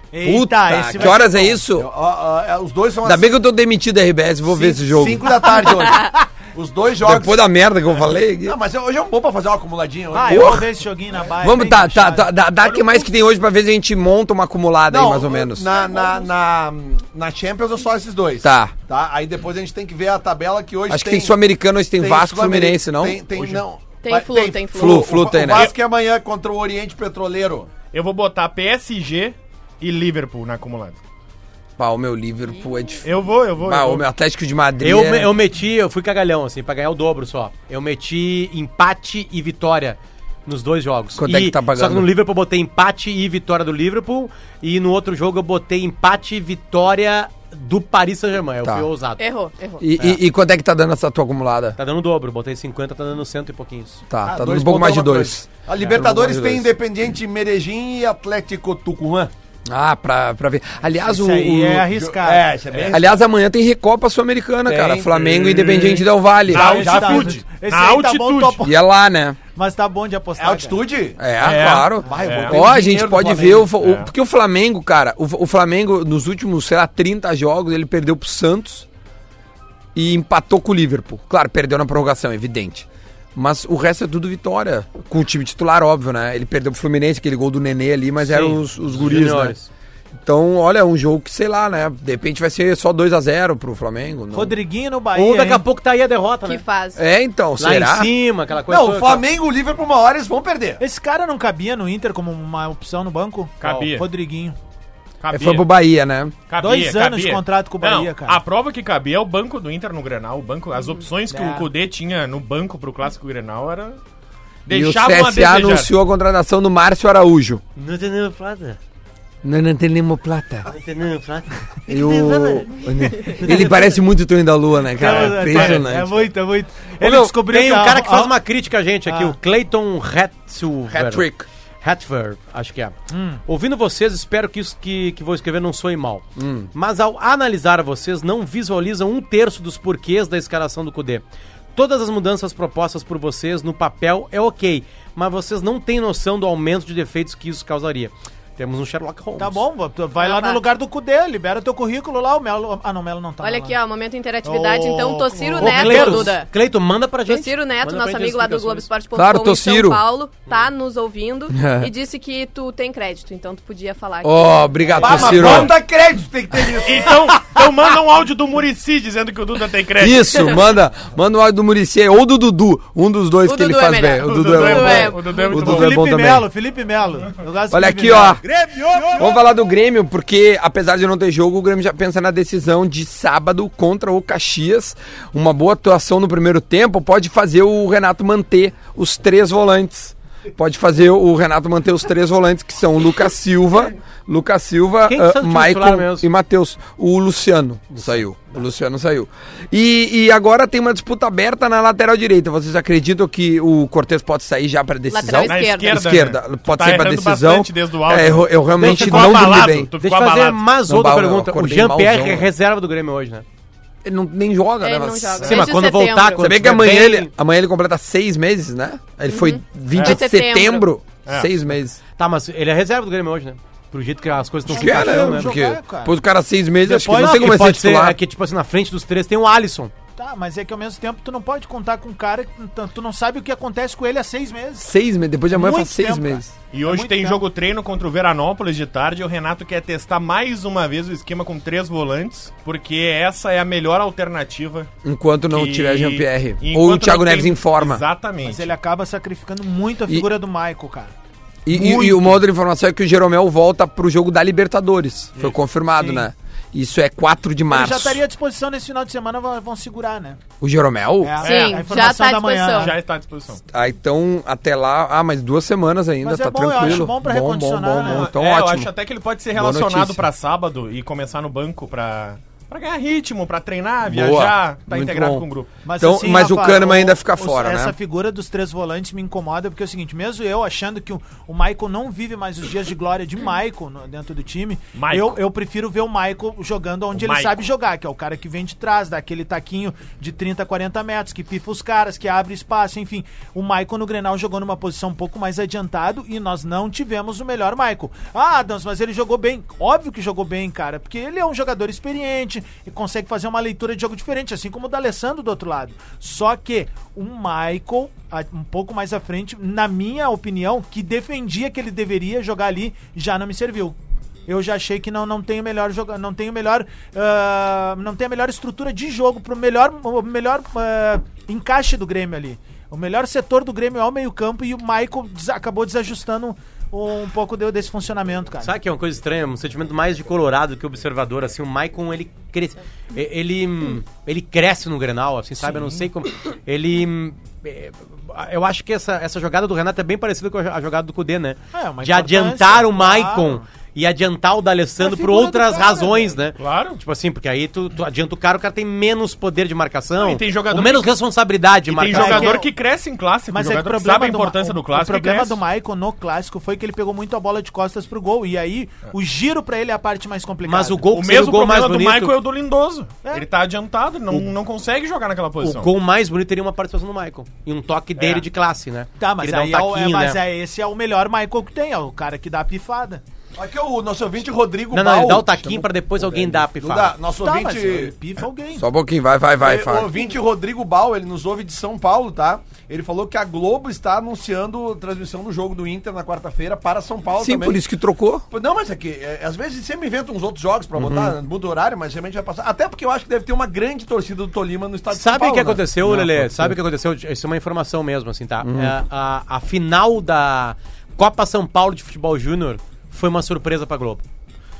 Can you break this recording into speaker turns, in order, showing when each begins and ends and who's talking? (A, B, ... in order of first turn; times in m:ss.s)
0:00.1-0:01.6 A
0:00.2-0:01.9 B
0:00.8-0:03.3 C
0:03.0-0:05.3 B
0:04.5-0:07.4 C
0:07.0-0:08.6 B
0:08.4-0:10.7 C
0:10.1-0:12.3 A
0:10.3-0:10.7 B
0:11.4-0:15.8 B
0:14.9-0:21.4 C
0:18.4-0:18.7 B
0:20.9-0:23.6 B
0:21.9-0:27.7 C
0:24.0-0:25.1 D
0:24.7-0:25.7 B
0:27.9-0:31.0 E
0:31.8-0:35.3 B
0:33.0-0:34.0 E
0:34.8-0:49.2 F
0:41.2-0:42.1 B
0:49.2-0:49.8 D
0:49.8-0:51.8 B
0:51.8-0:54.0 F
0:54.1-0:56.7 B
0:54.2-0:59.3 C
0:59.7-1:01.9 B
1:01.0-1:02.5 A
1:01.9-1:03.2 C
1:02.9-1:06.9 B
1:04.6-1:06.0 C
1:05.4-1:05.9 E
1:06.5-1:08.6 E
1:06.5-1:08.8 A
1:06.6-1:07.4 C
1:08.6-1:09.4 B
1:09.5-1:10.9 A
1:10.4-1:11.2 C
1:11.2-1:18.8 B
1:11.4-1:12.6 E
1:12.0-1:13.7 C
1:13.8-1:14.1 E
1:19.9-1:29.6 B
1:28.2-1:29.7 F
1:30.2-1:34.6 B
1:34.3-1:35.6 A
1:35.1-1:36.6 F
1:36.4-1:37.0 D
1:37.0-1:38.1 B
1:37.6-1:39.2 F
1:38.7-1:40.8 C
1:40.8-1:44.6 A
1:43.6-1:44.0 E
1:45.2-1:45.7 E
1:45.3-1:46.3 B
1:46.5-1:54.0 E
1:46.6-1:48.4 A
1:51.3-1:51.7 A
1:54.6-1:55.9 E
1:54.7-1:57.6 B
1:57.8-1:58.8 F
1:59.4-2:00.7 B
2:00.7-2:02.7 F
2:01.9-2:06.3 B
2:03.2-2:03.9 F
2:04.9-2:08.3 A
2:05.0-2:05.8 E
2:07.0-2:07.3 B
2:07.3-2:11.2 F
2:09.0-2:09.4 A
2:10.9-2:11.5 B
2:11.8-2:21.2 F
2:13.1-2:13.4 A
2:16.4-2:16.7 B
2:21.7-2:29.6 F
2:29.4-2:33.8 A
2:30.2-2:30.6 D
2:33.4-2:36.5 D
2:34.4-2:36.3 A
2:35.6-2:38.9 F
2:37.3-2:45.5 D
2:39.1-2:40.0 B
2:41.5-2:41.9 B
2:44.2-2:45.7 B
2:45.0-2:47.2 C
2:46.8-2:50.2 E
2:50.0-2:56.5 B
2:53.4-2:55.3 D
2:54.2-2:56.0 E
2:55.4-2:59.4 A
2:57.7-2:58.4 B
2:59.2-3:29.9 B
3:15.0-3:16.2 F
3:17.9-3:18.2 F
3:25.1-3:26.0 D
3:25.5-3:30.7 E
3:28.8-3:33.4 F
3:30.9-3:32.5 B
3:34.0-3:35.5 B
3:34.8-3:36.5 D
3:35.4-3:35.6 E
3:35.4-3:37.3 F
3:36.4-3:42.0 B
3:39.3-3:40.9 D
3:39.9-3:40.2 E
3:41.2-3:41.5 E
3:42.2-3:45.5 F
3:44.7-3:48.2 B
3:44.7-3:46.1 A
3:46.8-3:47.6 A
3:47.1-3:49.9 F
3:50.2-3:54.9 A
3:54.8-3:56.5 B
3:55.5-3:57.4 A
3:56.7-4:04.9 E
4:05.0-4:08.0 B
4:05.5-4:08.7 E
4:08.4-4:11.1 A
4:11.6-4:18.2 B
4:11.7-4:12.4 A
4:16.0-4:16.3 A
4:17.7-4:20.4 A
4:20.6-4:21.4 B
4:21.2-4:22.9 A
4:21.4-4:22.1 E
4:21.4-4:22.9 D
4:22.7-4:23.6 E
4:23.7-4:28.9 B
4:26.2-4:28.3 A
4:28.0-4:35.7 E
4:29.5-4:30.2 B
4:34.1-4:35.5 B
4:35.8-5:14.0 A
4:36.0-4:38.0 B
4:44.9-4:45.4 E
4:47.1-4:47.6 E
5:14.5-5:28.7 A
5:28.6-5:52.6 F
5:35.6-5:36.1 A
5:41.7-5:43.6 A
5:45.0-5:46.3 A
5:46.6-5:47.0 E
5:50.2-5:51.1 E
5:51.9-5:55.6 E
5:52.1-5:52.7 A
5:53.5-6:01.0 A
6:00.6-6:02.4 F
6:01.1-6:05.9 E
6:05.6-6:10.4 F
6:08.2-6:08.4 E
6:09.2-6:13.2 A
6:13.6-6:18.1 C
6:14.9-6:17.2 F
6:17.3-6:18.8 A
6:18.8-6:20.2 B
6:19.6-6:27.8 C
6:27.4-6:28.4 B
6:28.5-6:35.9 C
6:31.0-6:31.4 B
6:35.1-6:44.2 F
6:36.0-6:36.8 B
6:38.6-6:39.0 B